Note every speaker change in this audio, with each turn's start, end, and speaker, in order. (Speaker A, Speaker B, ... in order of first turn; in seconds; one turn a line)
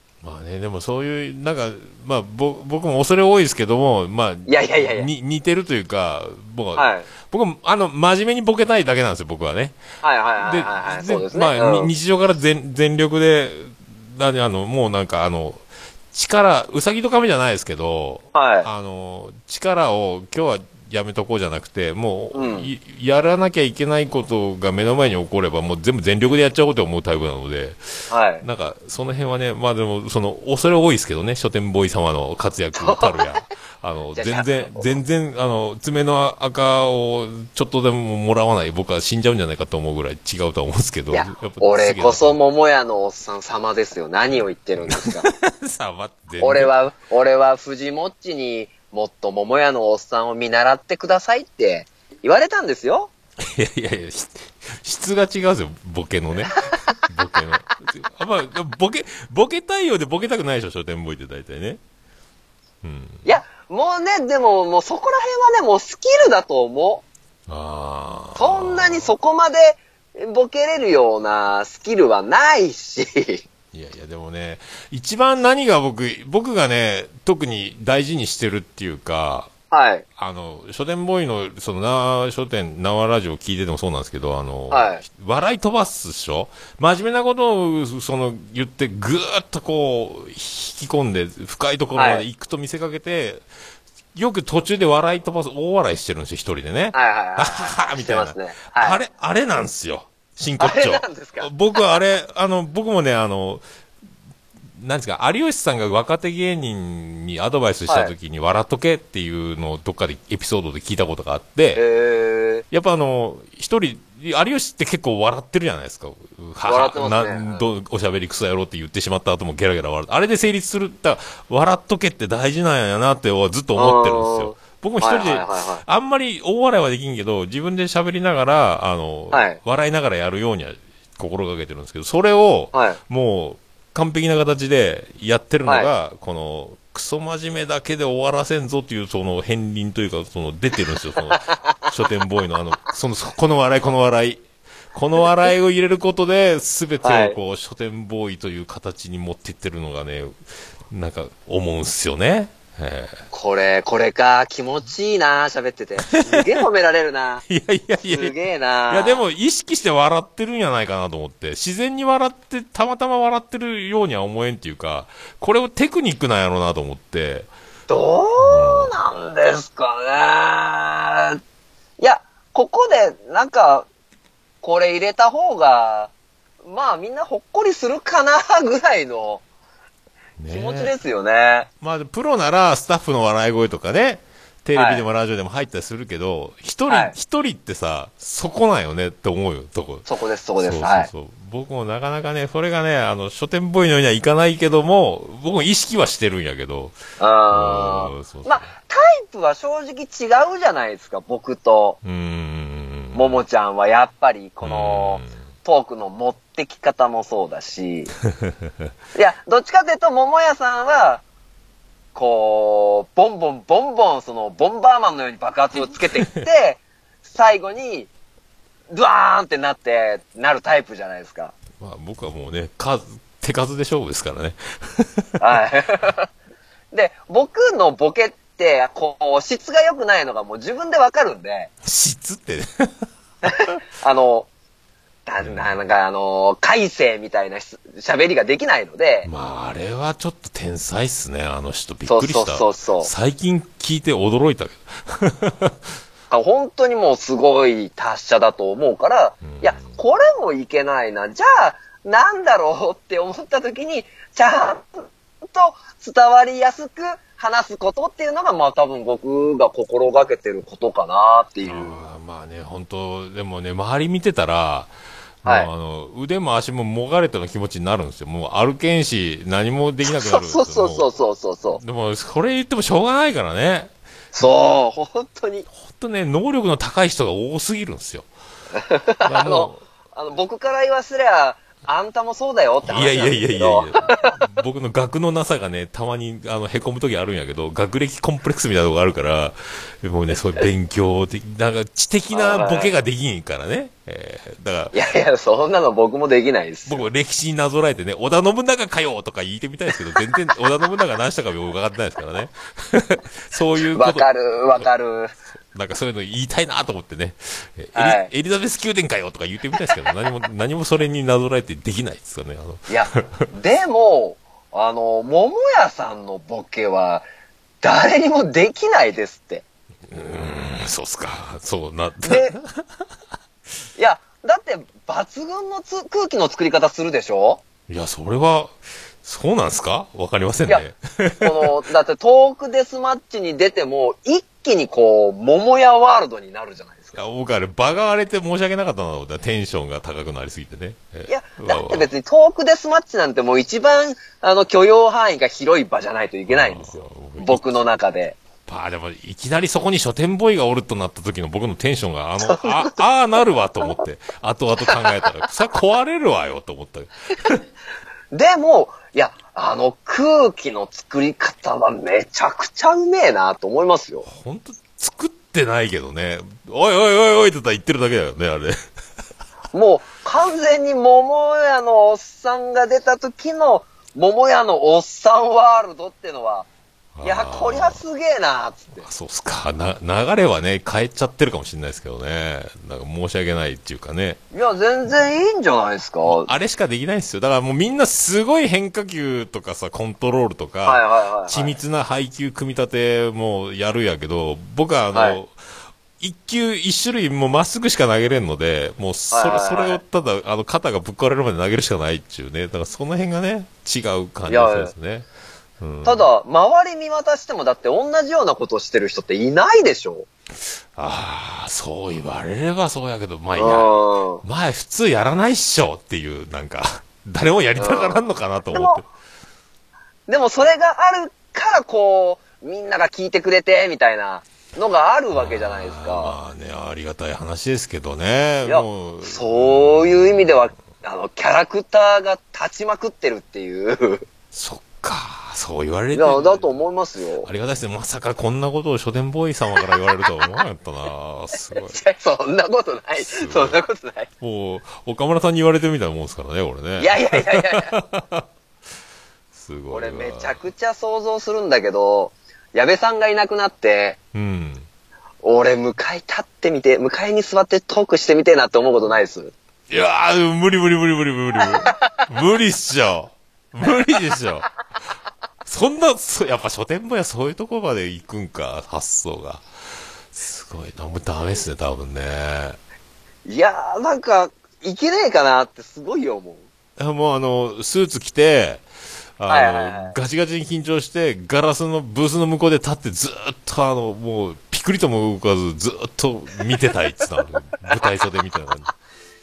Speaker A: 0.2-9.8
Speaker B: 4.5-5.1
Speaker B: 6.8-7.1
Speaker B: 10.0-11.9
Speaker A: 10.4-42.4
Speaker B: 18.3-18.7
Speaker B: 22.3-22.7
Speaker B: 28.1-28.4
Speaker B: 32.8-33.2
Speaker B: 34.1-35.0
Speaker B: 41.1-45.3
Speaker A: 44.8-46.8
Speaker B: 46.4-53.1
Speaker A: 53.4-61.8
Speaker A: 62.8-63.3
Speaker B: 63.2-67.0
Speaker A: 67.5-69.1
Speaker B: 68.4-73.5
Speaker A: 73.7-79.5
Speaker B: 79.7-80.0
Speaker A: 80.2-93.4
Speaker B: 84.7-85.0
Speaker B: 92.0-92.2
Speaker A: 94.2-103.6
Speaker B: 96.9-99.0
Speaker B: 100.6-101.8
Speaker A: 104.8-111.8
Speaker B: 107.9-108.1
Speaker B: 111.8-112.7
Speaker A: 112.7-150.4
Speaker B: 116.7-117.6
Speaker B: 123.8-125.8
Speaker B: 129.3-129.6
Speaker B: 132.7-133.0
Speaker B: 141.4-141.8
Speaker B: 147.0-147.4
Speaker A: 150.9-153.2
Speaker B: 153.3-157.4
Speaker A: 156.0-156.6
Speaker A: 157.5-158.3
Speaker B: 158.1-159.2
Speaker A: 158.9-167.5
Speaker B: 167.9-171.4
Speaker A: 168.4-169.0
Speaker B: 172.0-173.9
Speaker B: 174.6-176.1
Speaker B: 176.6-179.4
Speaker A: 180.4-180.9
Speaker B: 180.5-181.7
Speaker A: 181.8-197.0
Speaker B: 184.8-185.1
Speaker B: 186.9-187.2
Speaker B: 190.1-191.1
Speaker B: 197.2-202.0
Speaker A: 197.5-198.7
Speaker A: 202.0-203.4
Speaker B: 203.1-208.1
Speaker A: 204.6-205.3
Speaker A: 208.4-208.7
Speaker B: 209.2-211.2
Speaker B: 212.2-218.1
Speaker A: 215.8-216.1
Speaker B: 218.9-221.6
Speaker A: 221.8-225.4
Speaker B: 225.4-226.3
Speaker B: 226.9-231.7
Speaker A: 231.8-232.9
Speaker B: 233.4-234.5
Speaker B: 235.3-239.3
Speaker A: 235.4-235.8
Speaker A: 239.2-245.9
Speaker B: 242.1-243.1
Speaker B: 246.3-262.0
Speaker A: 249.4-250.0
Speaker A: 261.6-264.9
Speaker A: 265.4-271.1
Speaker B: 265.4-265.7
Speaker B: 270.1-271.8
Speaker A: 271.7-273.9
Speaker B: 274.3-275.7
Speaker A: 275.7-278.3
Speaker B: 278.8-284.4
Speaker A: 279.2-279.9
Speaker A: 282.8-294.9
Speaker B: 292.3-292.9
Speaker B: 294.9-297.0
Speaker A: 296.9-304.3
Speaker B: 303.8-305.3
Speaker A: 305.7-313.3
Speaker B: 307.9-308.3
Speaker B: 312.9-317.2
Speaker B: 317.8-319.6
Speaker A: 320.1-322.8
Speaker B: 322.2-322.6
Speaker B: 324.0-327.6
Speaker A: 327.9-331.7
Speaker B: 331.4-337.2
Speaker A: 337.1-342.1
Speaker B: 341.3-348.4
Speaker A: 346.5-347.8
Speaker A: 348.7-357.6
Speaker B: 352.5-353.0
Speaker B: 354.9-355.2
Speaker B: 358.3-364.3
Speaker A: 364.3-368.9
Speaker B: 369.7-376.7
Speaker A: 377.2-378.0
Speaker B: 377.2-379.1
Speaker A: 379.0-384.4
Speaker B: 384.5-386.5
Speaker A: 386.2-395.6
Speaker B: 390.9-391.8
Speaker B: 395.1-395.4
Speaker A: 396.2-405.3
Speaker B: 399.3-400.0
Speaker B: 404.5-404.9
Speaker A: 405.8-406.3
Speaker B: 406.0-410.3
Speaker A: 410.9-419.1
Speaker B: 413.6-414.4
Speaker B: 417.8-419.0
Speaker B: 420.3-426.4
Speaker A: 425.3-430.6
Speaker B: 428.6-434.3
Speaker A: 434.5-436.8
Speaker B: 436.1-437.5
Speaker A: 437.4-442.0
Speaker B: 439.8-440.0
Speaker B: 441.7-444.3
Speaker A: 443.2-443.8
Speaker A: 444.4-448.5
Speaker B: 447.0-447.9
Speaker A: 449.5-450.6
Speaker B: 449.9-454.2
Speaker A: 454.3-454.9
Speaker B: 455.4-459.5
Speaker A: 459.9-464.7
Speaker B: 461.6-462.3
Speaker A: 465.6-469.6
Speaker A: 470.3-472.8
Speaker B: 473.5-476.7
Speaker A: 477.0-478.9
Speaker A: 479.4-488.9
Speaker B: 479.5-480.2